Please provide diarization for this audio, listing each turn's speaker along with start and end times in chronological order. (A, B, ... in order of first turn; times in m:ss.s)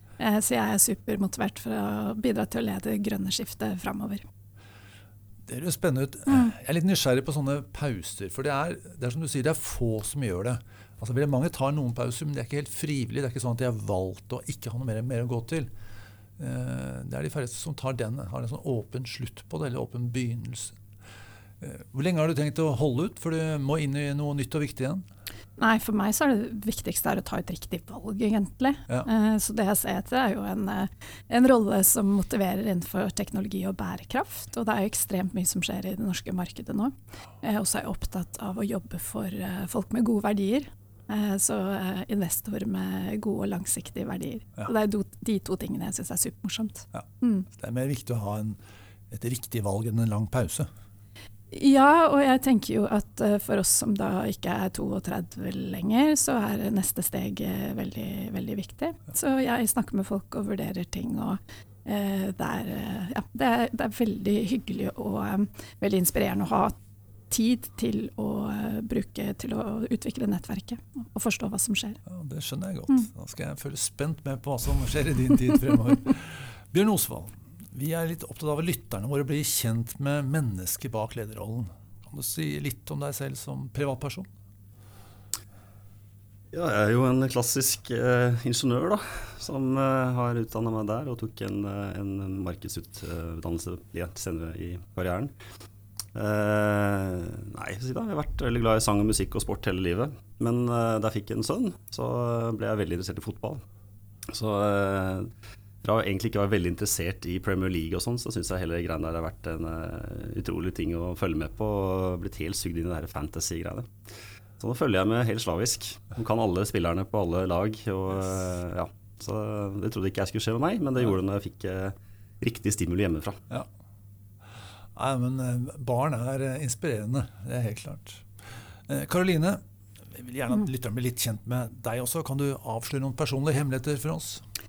0:00.2-0:04.2 A
0:05.4-0:15.7 B
0:16.4-0:20.8 B
0:21.6-0:25.0 B
0:25.6-0:47.5 A
0:46.9-0:50.7 B
0:51.5-1:06.8 A
1:07.3-1:12.0 A
1:12.0-1:24.3 B
1:26.5-1:35.3 C
1:36.1-1:43.6 C
1:44.3-1:45.3 C
1:45.8-1:53.9 C
1:54.6-2:03.4 C
2:04.9-2:08.3 B
2:08.9-2:14.4 B